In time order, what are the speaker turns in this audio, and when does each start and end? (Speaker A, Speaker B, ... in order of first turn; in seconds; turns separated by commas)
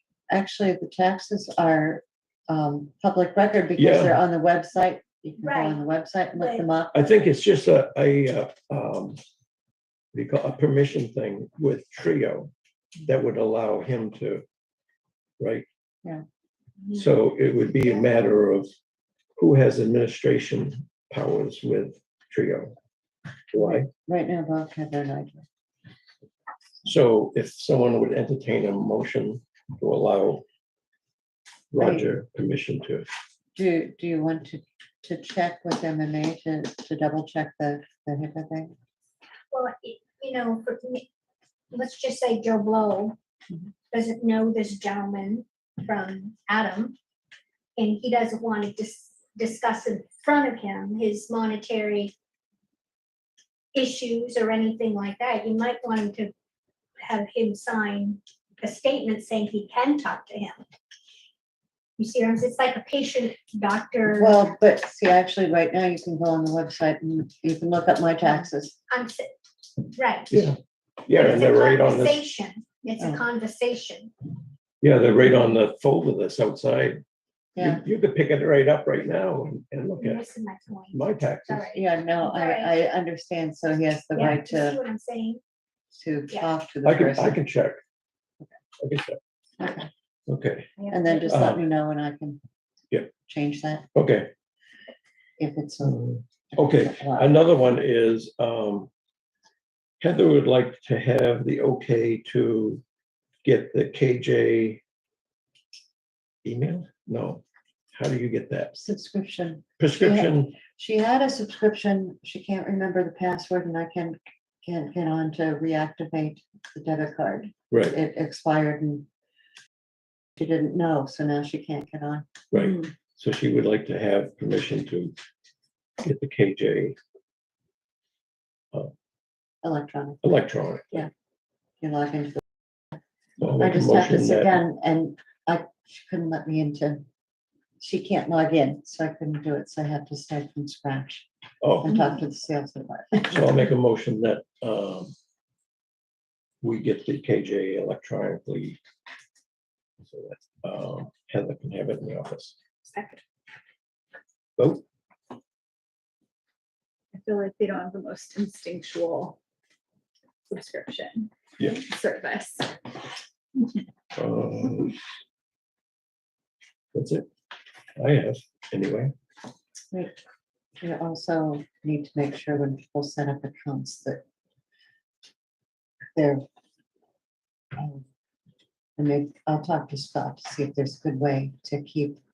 Speaker A: 0.3-7.2, Speaker B: 3.8-4.2, Speaker C: 5.4-5.8, Speaker C: 6.4-6.7, Speaker B: 6.9-9.2, Speaker B: 10.1-12.5, Speaker B: 13.0-14.4, Speaker B: 15.4-15.7, Speaker B: 16.9-18.7, Speaker B: 19.4-22.8, Speaker B: 23.5-23.9, Speaker A: 23.6-25.4, Speaker B: 26.8-30.4, Speaker B: 31.7-33.1, Speaker A: 31.8-32.1, Speaker A: 33.5-38.8, Speaker C: 39.5-41.1, Speaker C: 41.7-43.2, Speaker C: 43.9-47.0, Speaker C: 47.8-52.1, Speaker C: 53.7-56.3, Speaker C: 57.0-60.6, Speaker C: 62.0-64.4, Speaker A: 64.1-68.8, Speaker C: 68.9-70.5, Speaker B: 70.3-72.3, Speaker C: 71.2-74.1, Speaker A: 73.0-73.2, Speaker B: 74.8-77.0, Speaker A: 77.6-77.8, Speaker B: 77.6-80.3, Speaker C: 80.0-82.8, Speaker B: 80.9-81.6, Speaker A: 81.7-84.8, Speaker C: 84.2-85.4, Speaker A: 85.9-87.4, Speaker B: 86.8-87.8, Speaker B: 88.8-89.2, Speaker A: 89.6-89.9, Speaker B: 90.3-91.6, Speaker C: 90.8-91.2, Speaker A: 90.9-92.4, Speaker A: 93.3-93.9, Speaker B: 93.9-94.3, Speaker A: 95.4-96.0, Speaker B: 95.8-98.9, Speaker A: 96.5-97.5, Speaker B: 100.0-102.8, Speaker B: 103.4-104.8, Speaker B: 106.4-107.4, Speaker B: 107.9-108.7, Speaker A: 108.7-119.1, Speaker B: 109.8-110.6, Speaker B: 117.7-118.0, Speaker A: 120.4-122.3, Speaker B: 122.5-125.1, Speaker B: 126.0-127.0, Speaker A: 129.6-131.1, Speaker B: 130.2-131.1, Speaker A: 131.8-132.4, Speaker B: 133.4-134.6, Speaker A: 133.6-137.0, Speaker A: 137.8-141.3, Speaker B: 141.6-141.9, Speaker A: 141.8-143.7, Speaker B: 143.3-145.2, Speaker B: 146.6-148.8, Speaker B: 150.0-152.6, Speaker D: 152.8-153.2, Speaker B: 154.6-154.8, Speaker D: 157.1-159.4, Speaker D: 160.5-162.8, Speaker B: 164.2-165.0, Speaker B: 166.9-167.3, Speaker B: 168.0-169.1, Speaker A: 170.8-174.2, Speaker A: 176.2-176.4, Speaker A: 177.8-178.0, Speaker A: 179.0-182.2